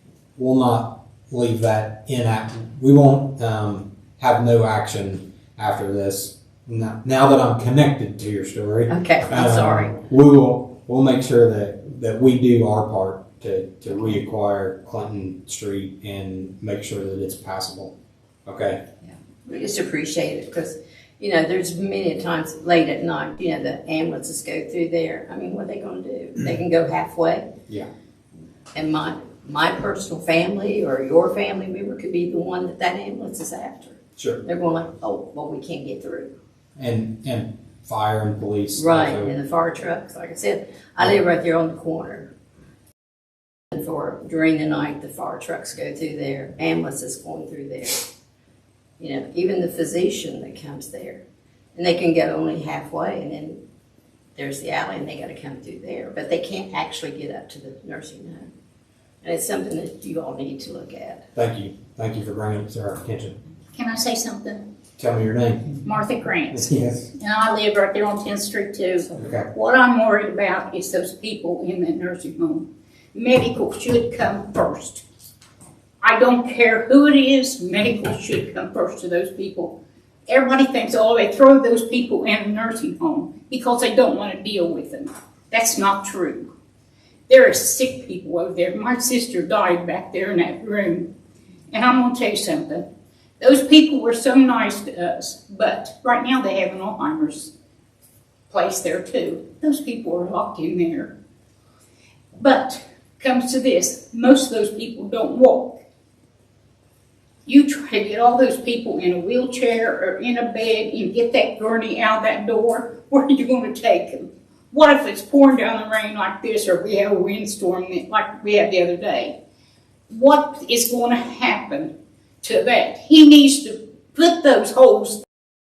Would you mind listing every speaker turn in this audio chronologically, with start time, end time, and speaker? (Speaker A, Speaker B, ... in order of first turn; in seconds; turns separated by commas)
Speaker A: 0.4-17.9, Speaker B: 8.9-10.0, Speaker A: 18.5-18.8, Speaker B: 19.4-27.5, Speaker B: 28.7-36.3, Speaker A: 34.2-34.4, Speaker A: 36.8-39.3, Speaker B: 38.8-42.3, Speaker B: 43.7-48.0, Speaker B: 49.0-51.2, Speaker B: 51.8-53.6, Speaker B: 54.4-58.5, Speaker B: 59.2-61.2, Speaker A: 61.4-63.4, Speaker C: 63.7-64.6, Speaker A: 65.0-65.8, Speaker C: 65.8-75.0, Speaker A: 66.5-67.1, Speaker A: 69.2-69.5, Speaker C: 76.0-86.5, Speaker C: 87.3-91.1, Speaker C: 91.7-92.8, Speaker C: 93.4-97.5, Speaker C: 98.5-101.1, Speaker C: 102.3-105.8, Speaker C: 107.5-119.4, Speaker C: 120.1-125.2